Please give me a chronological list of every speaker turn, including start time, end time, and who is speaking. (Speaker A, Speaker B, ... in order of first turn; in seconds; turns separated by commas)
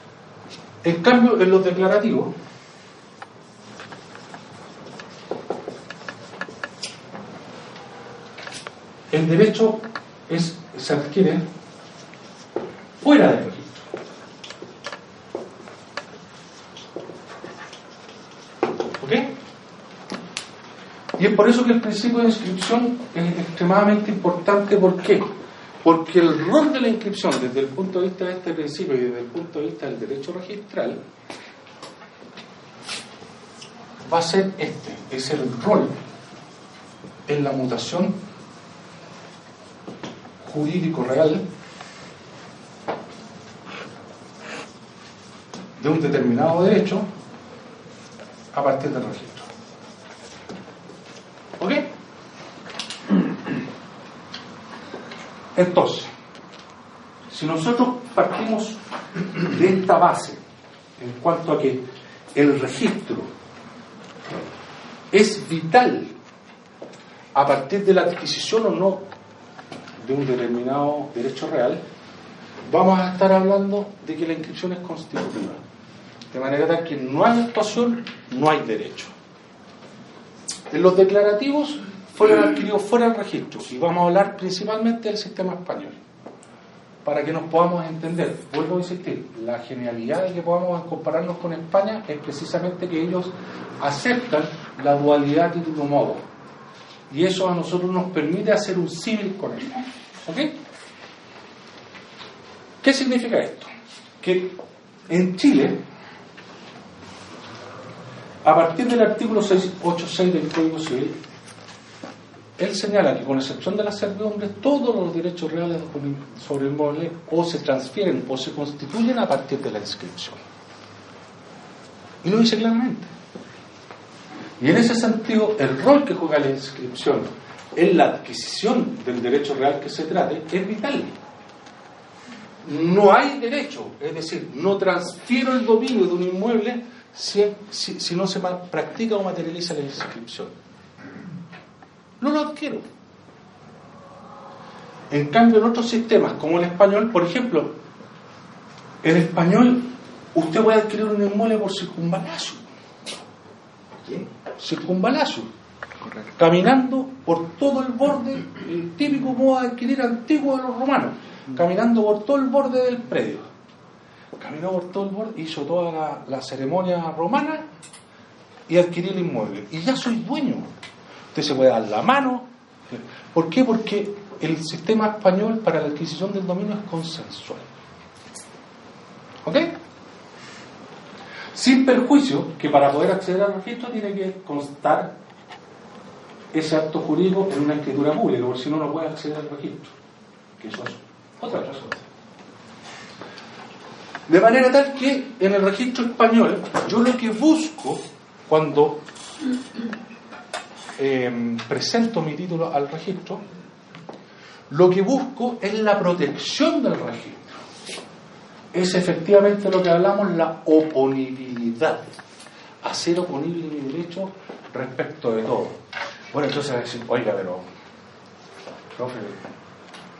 Speaker A: 0.8-2.3, Speaker A: 9.1-11.4, Speaker A: 13.0-13.8, Speaker A: 19.0-19.3, Speaker A: 21.2-25.3, Speaker A: 25.8-31.0, Speaker A: 34.0-35.9, Speaker A: 37.3-38.2, Speaker A: 40.4-41.4, Speaker A: 45.8-47.1, Speaker A: 48.5-49.5, Speaker A: 51.6-51.9, Speaker A: 55.5-56.1, Speaker A: 57.3-58.8, Speaker A: 59.4-60.4, Speaker A: 61.0-61.8, Speaker A: 62.3-63.3, Speaker A: 65.1-66.1, Speaker A: 67.3-69.0, Speaker A: 70.0-71.8, Speaker A: 72.7-75.6, Speaker A: 76.3-79.1, Speaker A: 80.7-86.0, Speaker A: 87.0-96.2, Speaker A: 97.1-100.6, Speaker A: 102.8-103.7, Speaker A: 104.2-104.6, Speaker A: 105.1-105.8, Speaker A: 108.4-111.2, Speaker A: 112.6-120.4, Speaker A: 122.2-123.1, Speaker A: 124.6-131.1, Speaker A: 132.6-140.5, Speaker A: 142.2-142.8, Speaker A: 145.1-147.8, Speaker A: 149.0-152.6, Speaker A: 154.6-155.5, Speaker A: 156.4-163.5, Speaker A: 164.4-167.7, Speaker A: 168.7-170.7, Speaker A: 171.3-177.7, Speaker A: 179.4-179.8, Speaker A: 181.5-185.2, Speaker A: 186.5-189.9, Speaker A: 190.6-192.0, Speaker A: 194.3-199.0, Speaker A: 201.0-203.4, Speaker A: 204.7-207.6, Speaker A: 208.7-212.1, Speaker A: 212.8-215.8, Speaker A: 216.3-217.7, Speaker A: 218.9-219.5